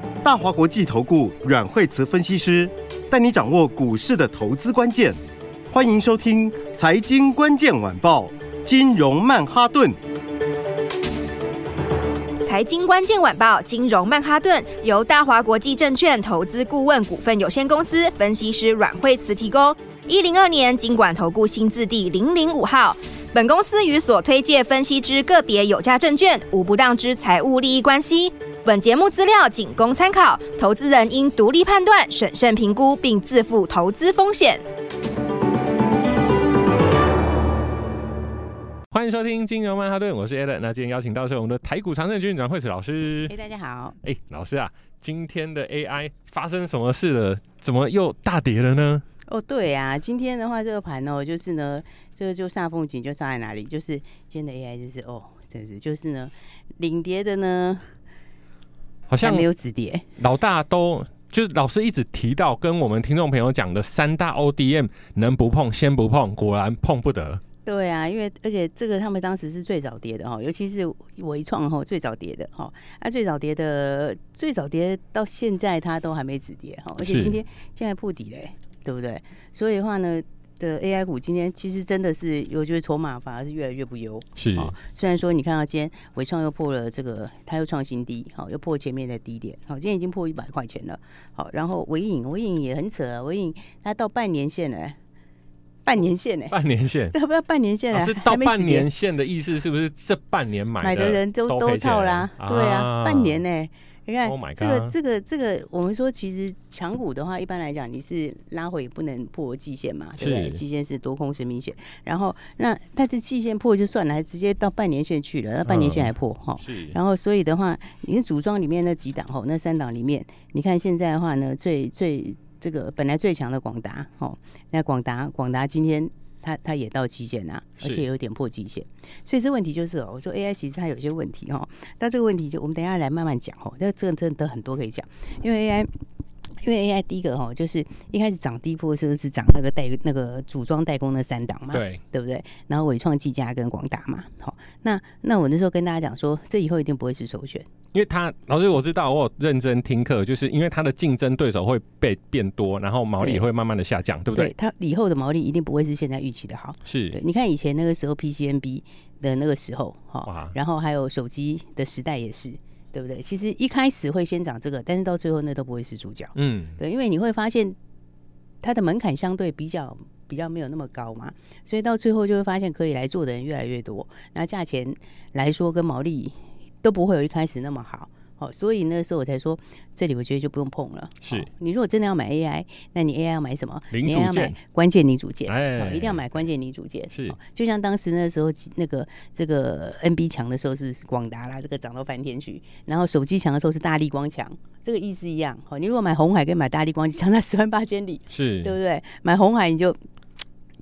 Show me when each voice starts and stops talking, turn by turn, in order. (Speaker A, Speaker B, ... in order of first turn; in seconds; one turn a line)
Speaker A: 0.2-5.2
Speaker A: 5.7-10.0
Speaker B: 12.4-34.6
Speaker C: 38.9-43.3
Speaker D: 43.3-44.0
Speaker C: 44.0-49.0
Speaker D: 49.3-58.0
Speaker C: 59.1-59.5
Speaker D: 59.2-60.0
Speaker C: 60.2-67.4
Speaker D: 67.7-95.0
Speaker C: 77.0-77.4
Speaker C: 84.4-84.8
Speaker D: 95.8-96.6
Speaker C: 96.5-97.2
Speaker D: 97.1-98.9
Speaker C: 97.9-103.4
Speaker D: 100.8-135.9
Speaker C: 104.2-104.9
Speaker C: 110.2-110.6
Speaker C: 115.7-116.1
Speaker C: 116.6-117.0
Speaker D: 136.6-147.7
Speaker C: 141.7-142.0
Speaker C: 147.9-154.5
Speaker D: 153.2-153.5
Speaker D: 154.3-167.8
Speaker C: 156.8-157.2
Speaker C: 160.2-160.6
Speaker C: 166.4-166.8
Speaker D: 168.6-200.0
Speaker C: 181.2-181.5
Speaker C: 183.9-184.6
Speaker C: 185.5-186.4
Speaker C: 187.1-187.4
Speaker C: 198.3-198.8